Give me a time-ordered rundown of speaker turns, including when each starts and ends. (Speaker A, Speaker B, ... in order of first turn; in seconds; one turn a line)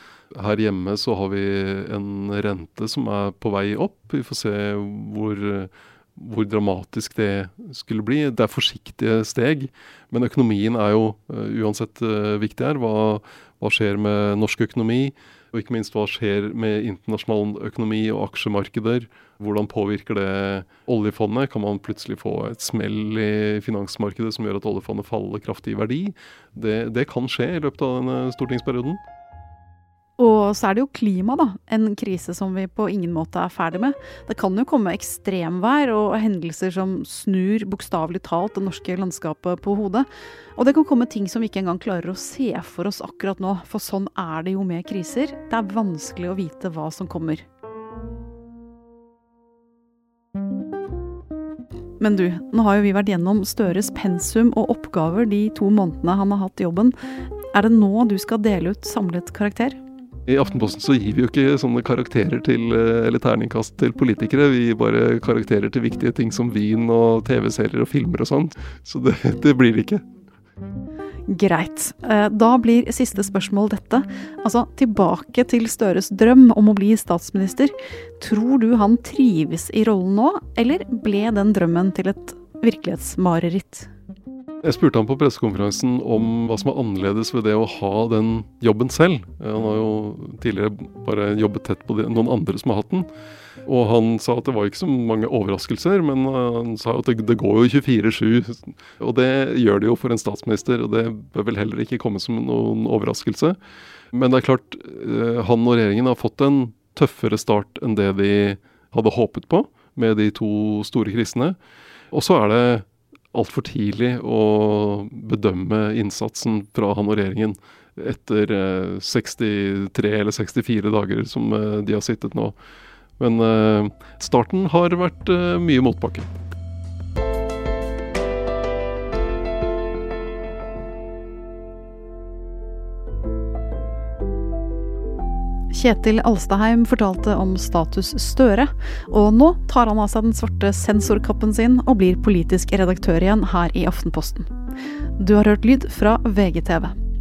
Speaker A: 0.3-29.0
Speaker B: 30.2-47.4
Speaker B: 52.0-56.9
Speaker B: 57.5-59.8
Speaker A: 60.3-70.0
Speaker B: 71.3-83.9
Speaker A: 84.6-93.0
Speaker A: 93.7-103.6
Speaker A: 104.1-111.6
Speaker A: 112.1-122.5
Speaker A: 123.2-126.3
Speaker B: 135.7-144.5
Speaker B: 145.2-146.9